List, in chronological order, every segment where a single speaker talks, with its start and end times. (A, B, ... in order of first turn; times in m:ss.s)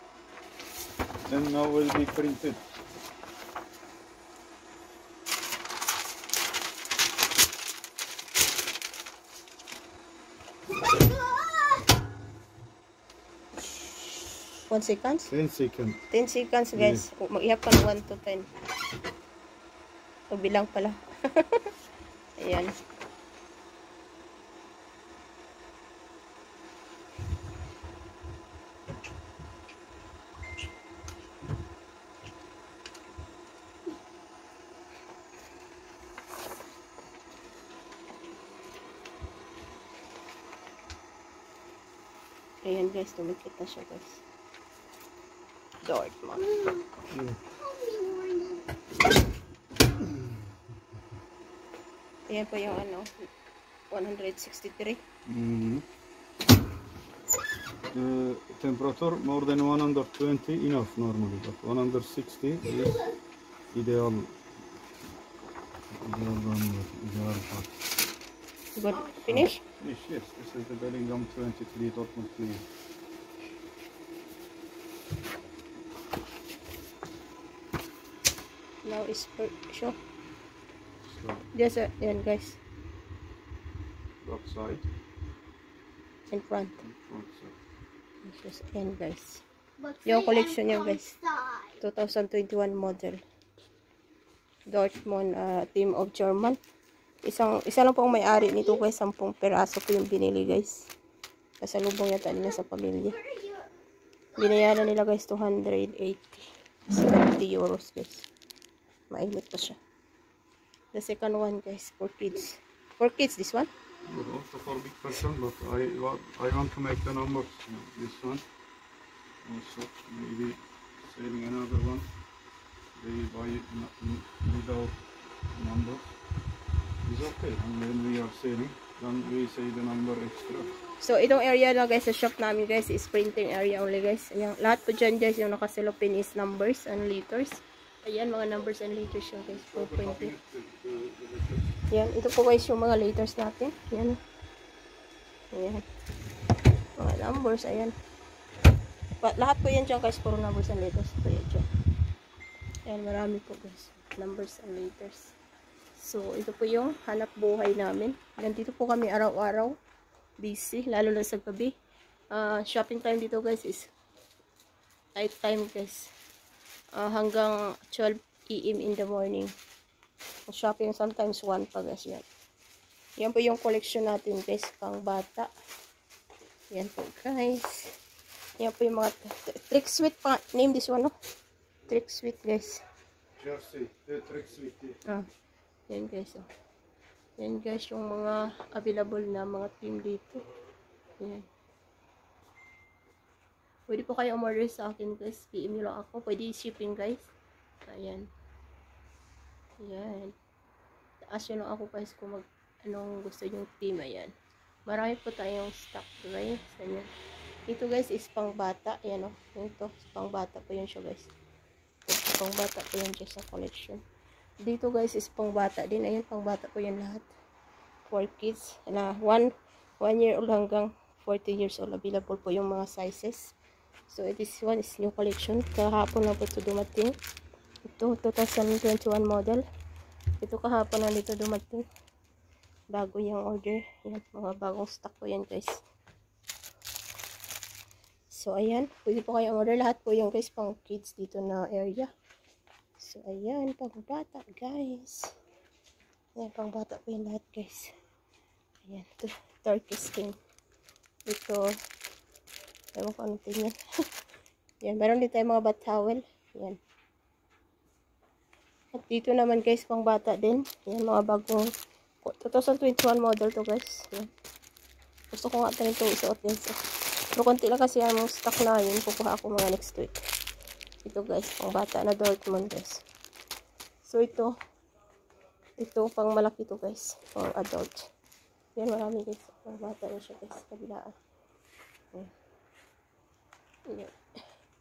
0:01.3-0:02.6 A
0:14.7-0:15.3 B
0:15.3-0:16.0 A
0:16.1-0:18.5 B
0:16.7-0:17.0 A
0:20.3-0:21.7 B
0:22.4-0:22.7 B
0:42.6-0:44.2 B
0:45.8-0:46.5 B
0:46.4-0:46.9 C
0:47.1-0:47.4 A
0:47.6-0:48.6 C
0:50.0-0:50.4 A
0:52.3-0:53.1 B
0:53.9-0:55.0 B
0:55.3-0:55.8 A
0:57.9-1:03.0 A
1:03.7-1:04.4 A
1:05.9-1:07.8 A
1:08.8-1:09.6 B
1:09.3-1:12.6 A
1:18.8-1:20.0 B
1:21.0-1:21.5 A
1:21.5-1:22.6 B
1:24.2-1:24.9 A
1:26.3-1:26.8 B
1:26.8-1:27.6 A
1:28.2-1:29.4 B
1:29.8-1:31.8 C
1:30.1-1:31.1 B
1:31.8-1:33.2 B
1:34.7-1:36.6 B
1:37.2-1:40.9 B
1:38.2-1:38.8 C
1:41.6-1:43.2 B
1:43.1-1:43.7 C
1:44.4-1:48.3 B
1:49.1-1:49.8 B
1:50.9-1:53.7 B
1:54.1-1:58.4 A
1:59.4-2:02.1 A
2:03.0-2:05.0 A
2:05.5-2:06.2 A
2:07.0-2:10.8 A
2:11.0-2:20.3 B
2:19.7-2:21.7 A
2:21.9-2:24.2 B
2:25.5-2:25.8 B
2:27.0-2:28.0 B
2:29.2-2:31.7 B
2:32.9-2:35.4 B
2:36.0-2:39.8 B
2:40.4-2:41.7 B
2:42.3-2:43.9 B
2:45.2-2:46.1 B
2:47.0-2:49.5 B
2:50.5-2:52.3 B
2:53.2-2:55.5 B
2:56.7-2:58.0 B
2:58.6-3:01.1 B
3:01.9-3:02.8 B
3:03.4-3:05.0 A
3:05.9-3:06.5 B
3:07.4-3:10.4 B
3:11.2-3:11.4 B
3:13.9-3:17.3 B
3:17.8-3:18.3 B
3:19.8-3:20.4 B
3:21.3-3:24.3 B
3:24.9-3:27.1 B
3:27.7-3:31.3 B
3:32.1-3:34.0 B
3:34.6-3:37.3 B
3:38.1-3:39.5 B
3:40.0-3:43.6 B
3:44.1-3:47.1 B
3:48.0-3:49.6 B
3:50.4-3:51.8 B
3:52.9-3:55.8 B
3:58.3-4:02.1 B
4:03.0-4:05.3 B
4:06.4-4:07.9 B
4:08.8-4:10.4 B
4:11.3-4:11.7 B
4:13.0-4:13.8 B
4:14.8-4:16.8 B
4:18.9-4:21.6 B
4:22.2-4:24.3 B
4:25.3-4:26.8 B
4:27.3-4:30.2 B
4:31.0-4:33.0 B
4:34.0-4:34.5 B
4:35.8-4:38.1 B
4:38.8-4:41.1 B
4:43.9-4:44.1 B